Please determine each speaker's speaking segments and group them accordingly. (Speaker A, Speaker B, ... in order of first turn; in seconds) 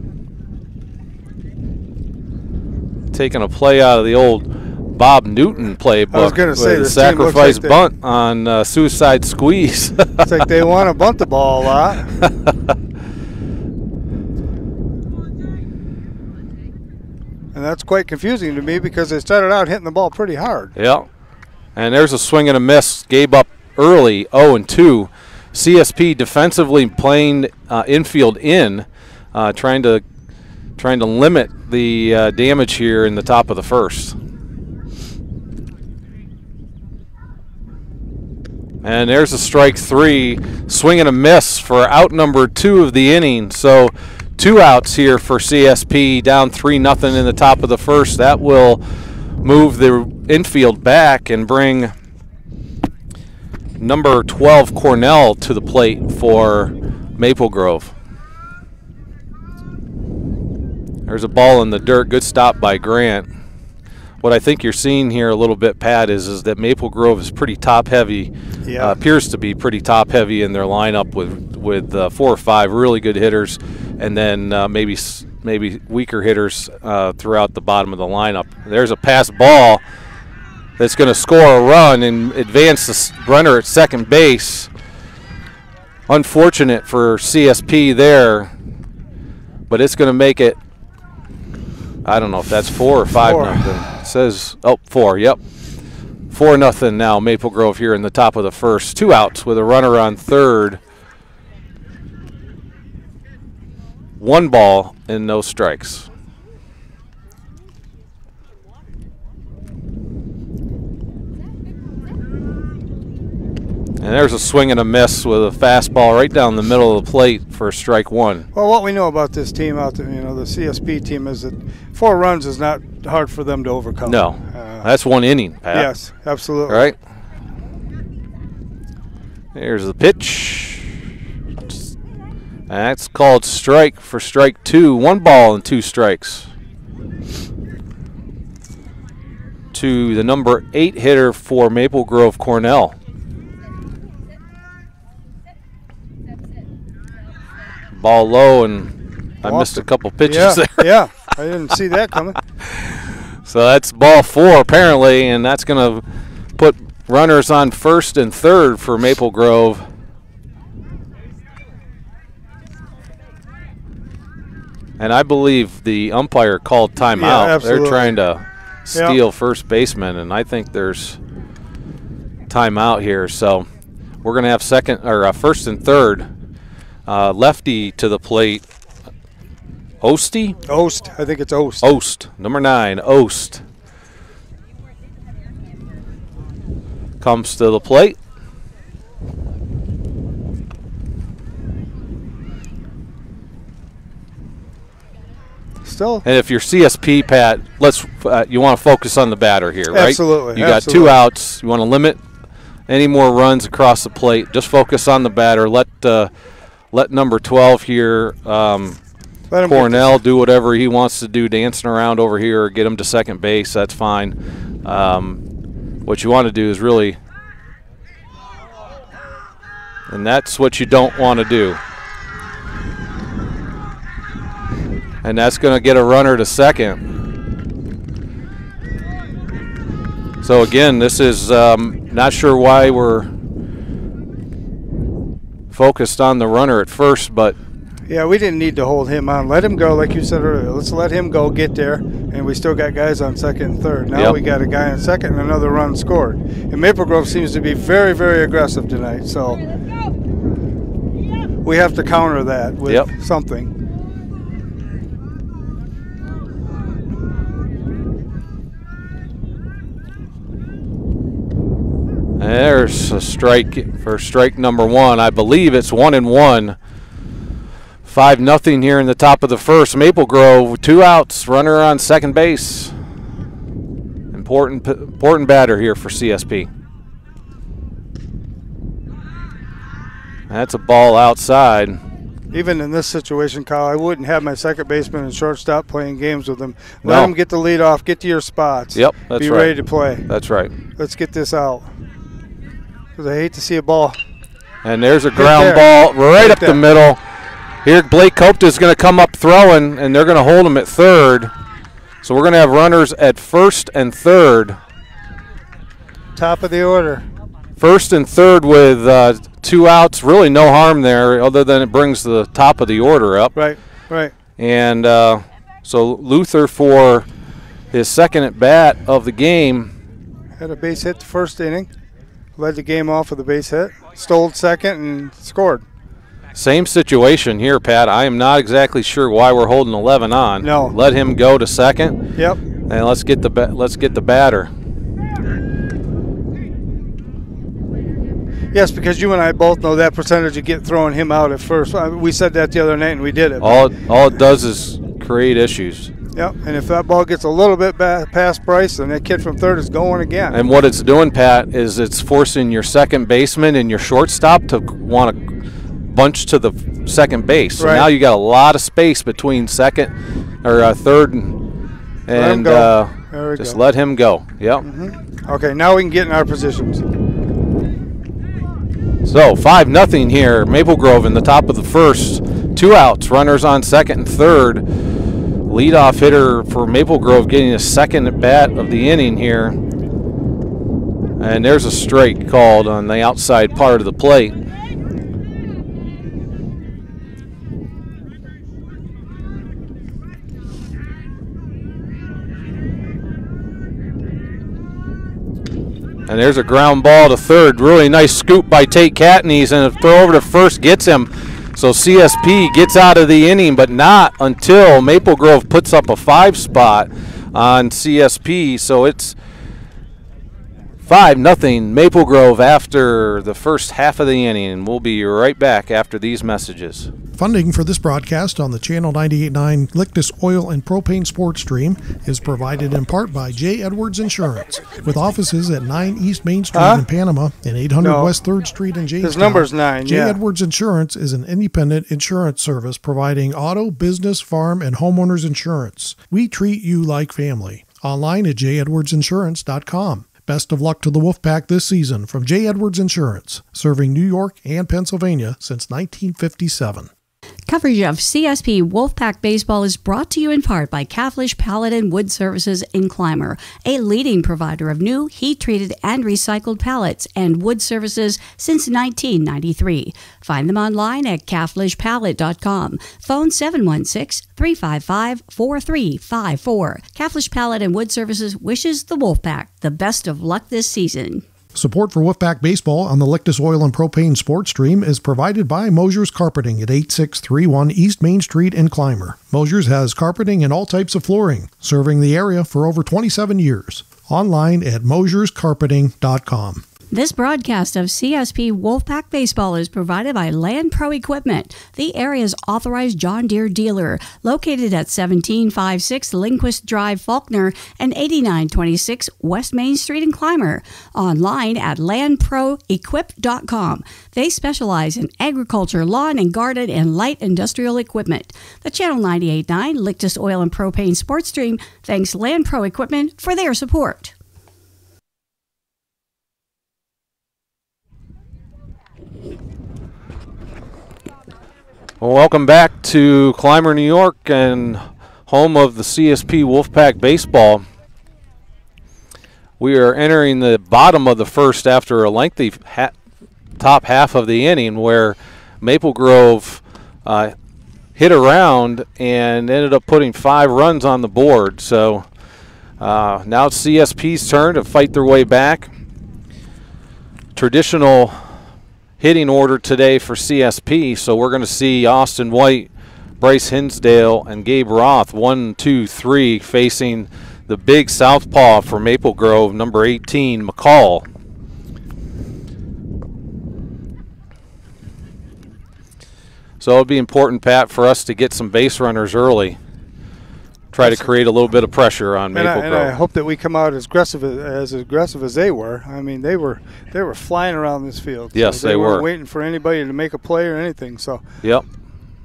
Speaker A: 3.1-10.4, 20.8-21.1, 21.8-30.0, 30.8-34.2, 38.8-48.8, 49.4-51.9, 53.8-57.9, 61.1-63.3, 64.2-79.8, 80.8-84.7, 86.1-88.5, 89.7-90.6, 92.0-95.4, 96.3-100.8, 104.2-106.1, 114.0-118.5, 124.0-125.9, 126.7-127.0, 129.5-130.9, 132.7-136.5, 139.7-143.0, 147.9-150.9, 152.7-156.0, 156.6-159.9, 165.0-171.2, 172.5-173.7, 174.2-176.3, 177.1-178.6, 180.0-180.6, 181.8-183.6, 187.2-188.2, 196.2-202.2, 202.9-206.3, 206.9-209.0, 209.7-215.4, 216.1-217.2, 220.1-221.8, 225.2-227.0, 230.4-233.3, 235.7-237.6, 262.4-266.8, 268.1-272.9, 274.3-276.7, 280.5-282.0, 287.0-287.3, 288.9-290.8, 294.8-297.2, 297.8-301.5, 302.2-304.8, 307.8-313.6, 314.6-317.3, 317.9-319.9, 326.6-332.2, 332.9-334.7, 343.6-346.1, 350.5-355.5, 356.1-360.1, 360.6-361.6, 362.3-364.9, 369.2-374.9, 375.7-379.8, 381.4-384.6, 396.3-409.4, 411.1-417.1, 522.2-527.9, 529.8-533.1, 533.8-537.5, 538.2-542.3, 543.0-545.9, 547.5-548.5, 549.2-552.9, 553.4-561.3, 566.8-569.8, 570.9-573.1, 578.5-579.3
Speaker B: 6.1-7.8, 10.2-12.2, 17.5-20.7, 68.7-69.0, 93.2-93.7, 118.5-124.9, 125.7-126.9, 149.4-152.4, 167.1-168.2, 180.7-181.9, 195.8-196.2, 199.9-201.2, 209.5-210.2, 238.1-249.6, 251.6-253.7, 282.5-290.3, 291.0-291.9, 293.2-294.2, 295.4-296.8, 306.4-307.3, 313.6-314.3, 320.6-321.9, 322.6-325.8, 330.6-331.0, 338.7-343.9, 346.4-350.6, 357.8-358.1, 362.3-363.8, 364.8-367.0, 426.7-427.1, 428.0-428.3, 429.2-430.4, 571.0-571.3, 572.5-581.4
Speaker C: 417.4-447.1, 471.8-486.8
Speaker D: 447.7-471.4, 487.1-514.3